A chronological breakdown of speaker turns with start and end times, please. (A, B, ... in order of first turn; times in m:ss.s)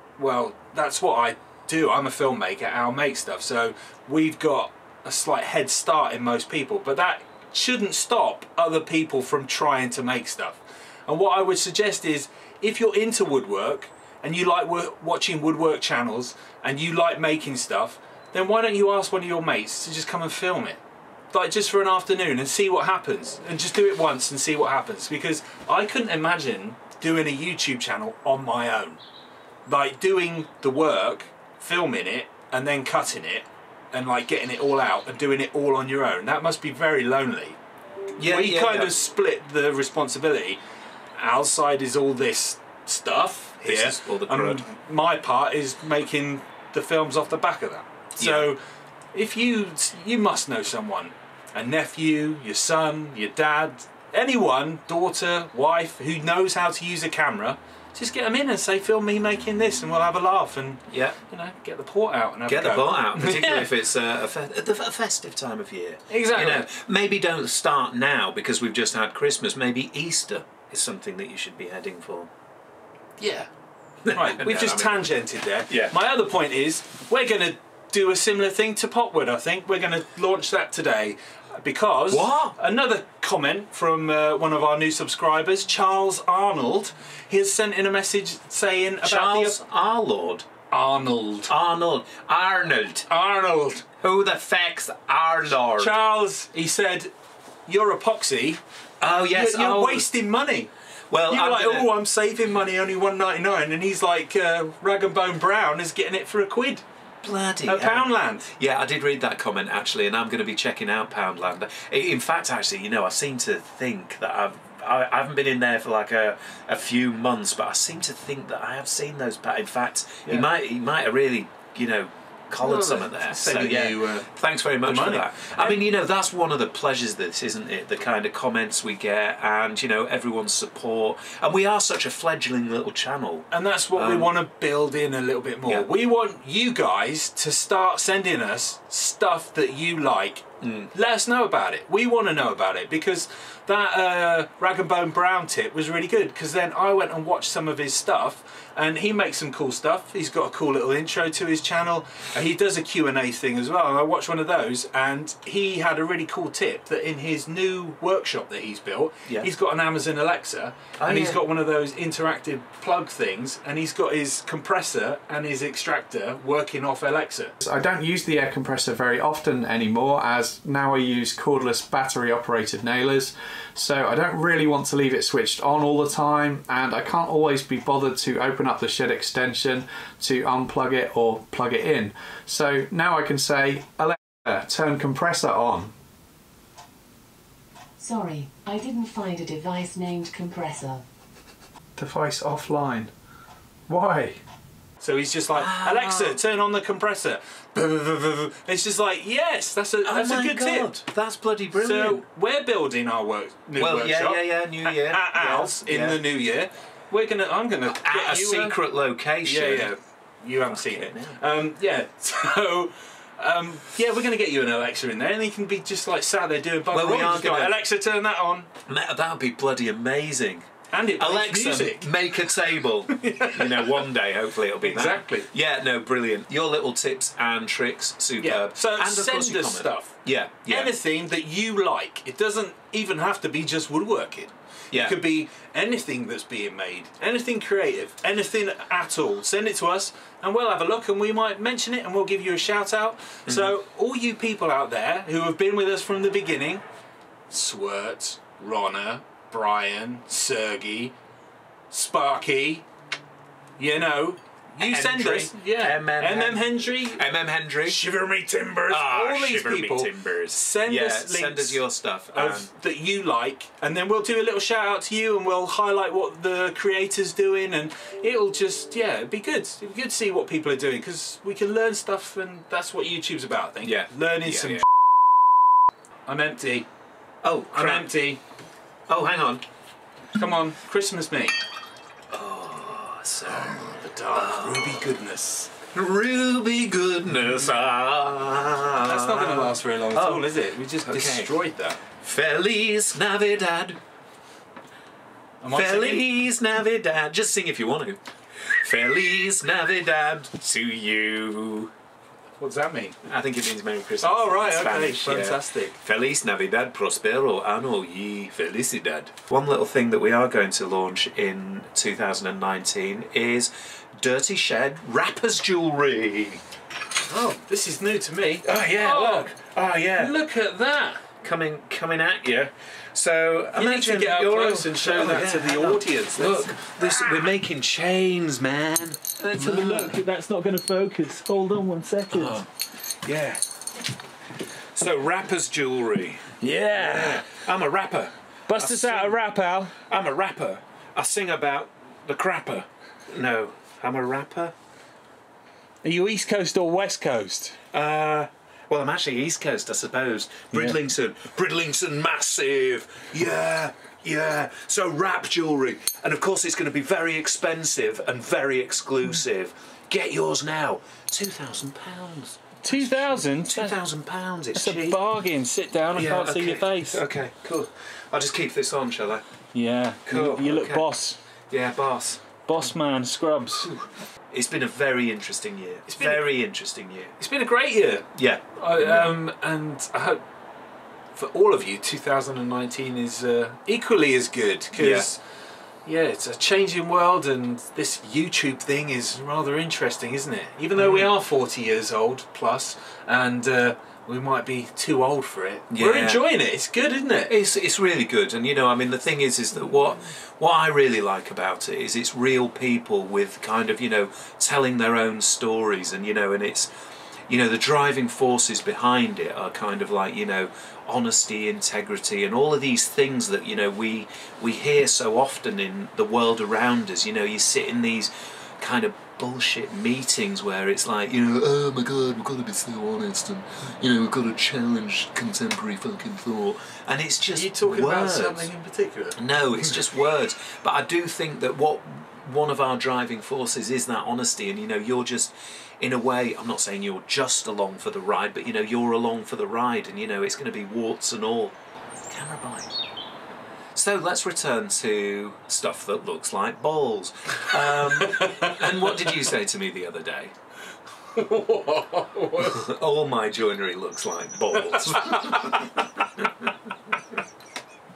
0:00.2-0:20.8 A
0:21.3-0:29.0 A
0:29.6-0:37.6 A
0:38.2-0:38.9 B
0:38.2-0:40.6 A
0:41.2-0:48.6 A
0:43.6-0:44.7 B
0:48.2-0:48.5 B
0:49.1-1:03.7 A
1:00.9-1:01.1 B
1:02.5-1:12.3 B
1:06.1-1:06.6 A
1:13.2-1:13.5 A
1:14.0-1:15.2 B
1:14.1-1:29.6 A
1:15.7-1:15.9 B
1:22.1-1:22.6 B
1:29.0-1:30.5 B
1:30.7-1:31.5 A
1:31.5-1:33.1 B
1:33.1-1:33.8 A
1:34.0-1:35.9 B
1:35.8-1:37.1 A
1:37.6-1:38.6 A
1:39.0-1:40.1 B
1:39.3-1:40.7 A
1:41.1-1:41.9 B
1:41.3-1:46.8 A
1:47.2-2:14.3 B
1:47.6-1:48.5 A
2:02.6-2:04.3 A
2:04.8-2:05.8 A
2:13.5-2:47.6 A
2:20.6-2:20.9 B
2:41.0-2:41.4 B
2:47.6-3:05.9 C
3:08.0-3:11.0 D
3:12.0-3:13.1 C
3:13.9-3:14.4 C
3:15.0-3:21.0 A
3:15.5-3:16.4 B
3:20.0-3:22.2 B
3:21.8-3:28.8 A
3:23.8-3:26.2 B
3:27.9-3:29.9 B
3:29.4-3:38.7 A
3:30.7-3:31.4 B
3:36.9-3:37.8 B
3:38.9-3:50.9 B
3:40.9-3:42.3 A
3:43.1-3:44.0 A
3:44.8-3:45.5 A
3:48.4-3:50.2 A
3:50.7-4:06.8 A
3:54.9-3:55.2 B
4:03.5-4:03.7 B
4:07.5-4:11.1 A
4:11.9-4:12.8 A
4:13.8-4:17.2 A
4:14.8-4:18.1 B
4:17.8-4:21.8 A
4:18.9-4:22.7 B
4:22.3-4:34.8 A
4:33.8-4:34.8 B
4:36.3-4:36.9 A
4:37.4-4:38.1 B
4:37.7-4:38.4 A
4:39.1-4:39.6 B
4:40.3-4:41.6 A
4:42.3-4:45.1 B
4:43.5-4:45.7 A
4:45.9-4:50.5 B
4:49.0-4:52.0 A
4:51.0-4:51.5 B
4:52.2-4:54.0 B
4:55.6-4:56.3 A
4:55.7-5:01.9 B
5:02.6-5:03.2 A
5:03.2-5:16.6 B
5:04.2-5:05.9 A
5:17.2-5:19.5 A
5:18.6-5:20.4 B
5:20.2-5:21.2 A
5:21.4-5:30.2 B
5:23.7-5:27.3 A
5:29.5-5:32.6 A
5:32.3-5:32.7 B
5:33.2-5:33.6 B
5:34.9-5:39.4 B
5:36.6-5:37.5 A
5:38.7-5:40.0 A
5:40.0-5:44.7 B
5:46.0-5:47.8 A
5:47.9-6:05.2 B
5:50.7-5:51.0 A
6:02.8-6:04.0 A
6:04.7-6:07.2 A
6:06.1-6:09.4 B
6:09.7-6:11.4 A
6:10.2-6:11.1 B
6:11.7-6:12.6 B
6:12.7-6:13.9 A
6:13.9-6:17.3 B
6:16.1-6:16.4 A
6:17.4-6:20.4 A
6:18.3-6:19.3 B
6:21.3-6:25.4 A
6:25.0-6:25.3 B
6:26.0-6:37.5 A
6:31.0-6:31.3 B
6:35.9-6:36.4 B
6:37.5-6:46.9 B
6:47.5-7:08.7 B
7:07.5-7:10.0 A
7:09.4-7:21.7 B
7:22.3-7:22.9 B
7:23.9-7:30.5 B
7:28.3-7:29.0 A
7:31.3-7:32.9 A
7:32.6-7:36.7 B
7:35.0-7:35.6 A